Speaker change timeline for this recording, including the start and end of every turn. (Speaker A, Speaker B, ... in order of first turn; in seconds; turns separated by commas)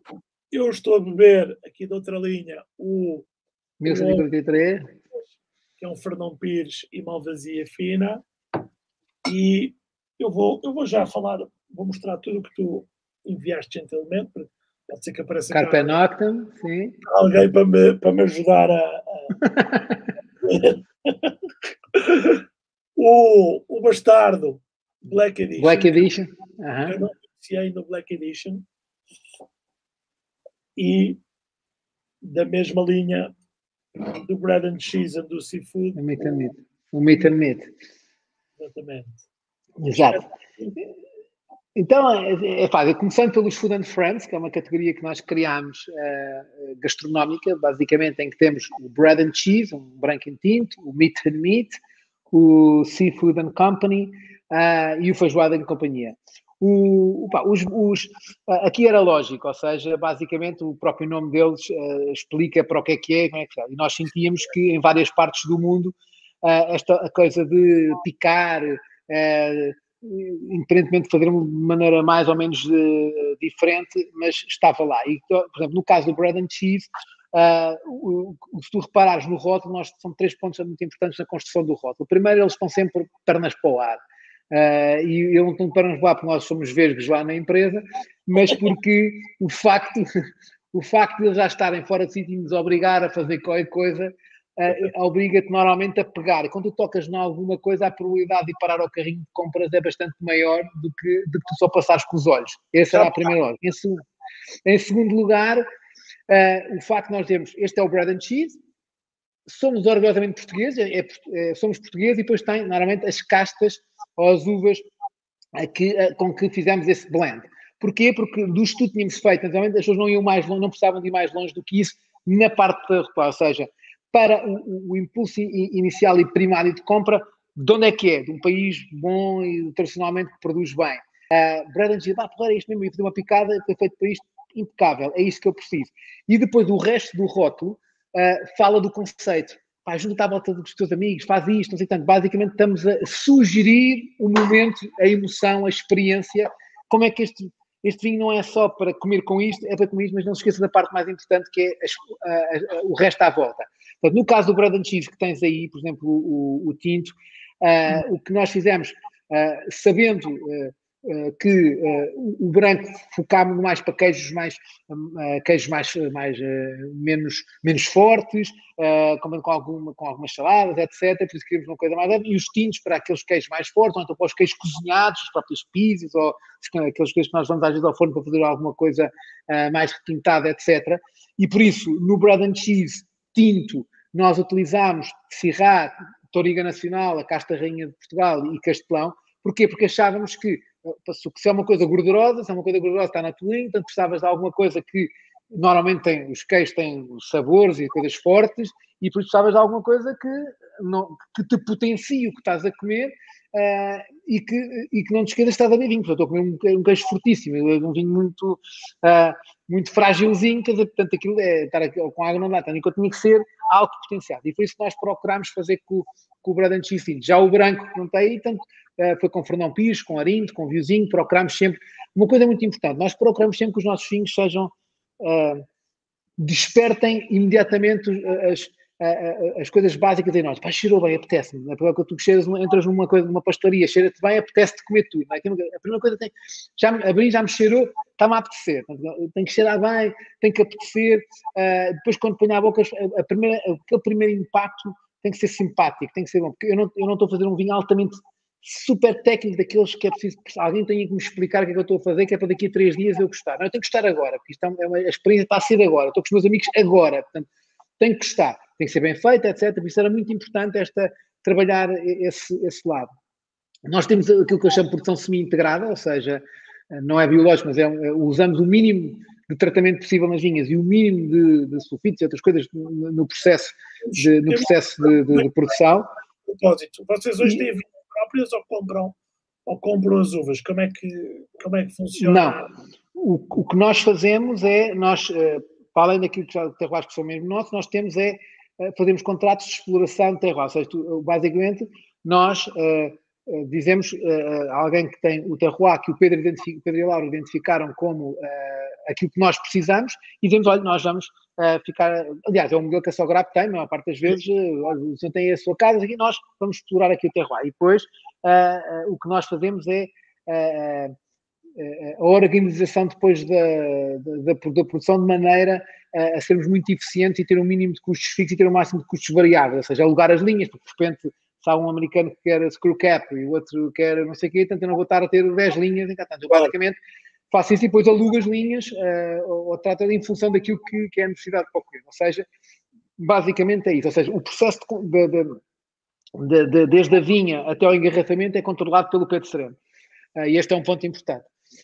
Speaker A: 0.5-3.3, Speaker B: 3.8-4.9, Speaker A: 3.9-4.2, Speaker A: 5.8-8.2, Speaker A: 9.2-16.0, Speaker B: 15.5-17.0, Speaker A: 17.0-19.3, Speaker B: 19.4-20.1, Speaker A: 20.4-22.4, Speaker A: 22.9-26.1, Speaker B: 25.6-27.0, Speaker A: 26.9-28.6, Speaker A: 30.8-31.2, Speaker A: 32.2-33.3, Speaker A: 34.0-36.0, Speaker B: 36.0-37.7, Speaker A: 38.6-39.2, Speaker B: 39.8-40.2, Speaker A: 39.9-40.7, Speaker B: 41.7-51.8, Speaker B: 52.3-84.0, Speaker B: 84.5-90.1, Speaker B: 90.7-104.0, Speaker A: 102.9-103.3, Speaker B: 104.6-105.6, Speaker B: 106.3-108.6, Speaker B: 109.5-114.8, Speaker B: 115.5-225.6, Speaker B: 226.4-257.5, Speaker B: 258.0-263.1, Speaker B: 263.9-276.1, Speaker A: 274.1-275.5, Speaker A: 276.4-282.6, Speaker B: 282.2-282.6, Speaker B: 283.2-311.1, Speaker B: 311.8-326.9, Speaker B: 327.5-332.4, Speaker B: 333.2-335.6, Speaker B: 336.4-339.8, Speaker B: 340.4-341.5